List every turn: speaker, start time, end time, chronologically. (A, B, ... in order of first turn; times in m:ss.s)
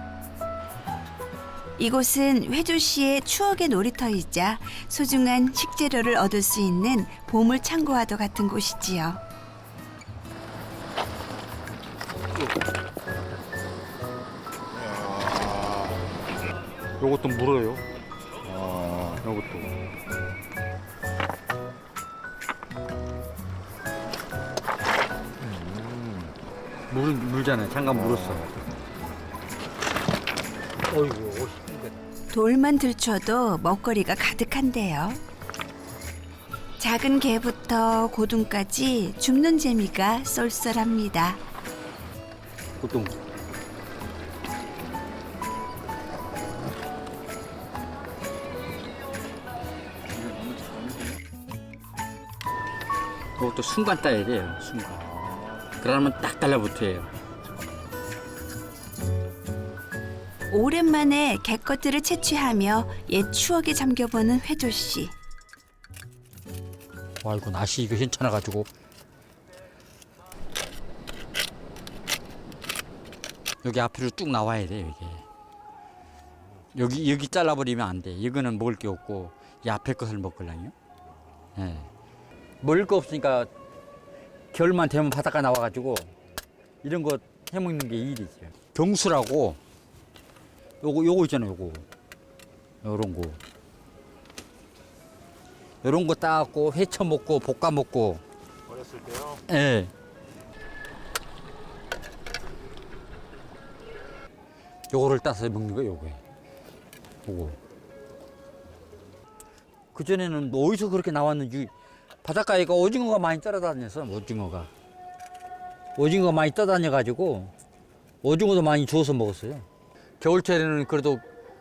0:01.8-0:09.2 A
0:14.7-0:16.1 B
0:17.0-0:17.8 C
0:18.4-0:19.2 B
0:19.2-0:19.7 C
0:25.4-0:26.3 C
0:26.9-0:28.7 C
0:30.9-0:32.0 C
0:32.3-0:35.2 A
0:36.8-0:41.4 A
0:42.8-0:43.2 C
0:50.1-0:51.2 C
0:53.4-0:55.2 C
0:55.8-0:57.1 C
1:00.5-1:05.1 A
1:07.2-1:08.7 C
1:13.6-1:15.2 C
1:16.7-1:20.7 C
1:21.6-1:21.9 C
1:22.6-1:23.5 C
1:24.5-1:26.1 C
1:26.8-1:29.6 C
1:30.8-1:31.9 C
1:32.8-1:33.4 C
1:35.8-1:38.2 C
1:38.7-1:39.4 B
1:39.5-1:39.9 C
1:44.9-1:46.2 C
1:47.2-1:47.6 C
1:49.9-1:51.7 C
1:52.2-1:54.7 C
1:56.0-1:57.5 C
1:58.2-1:59.6 C
2:00.2-2:01.2 C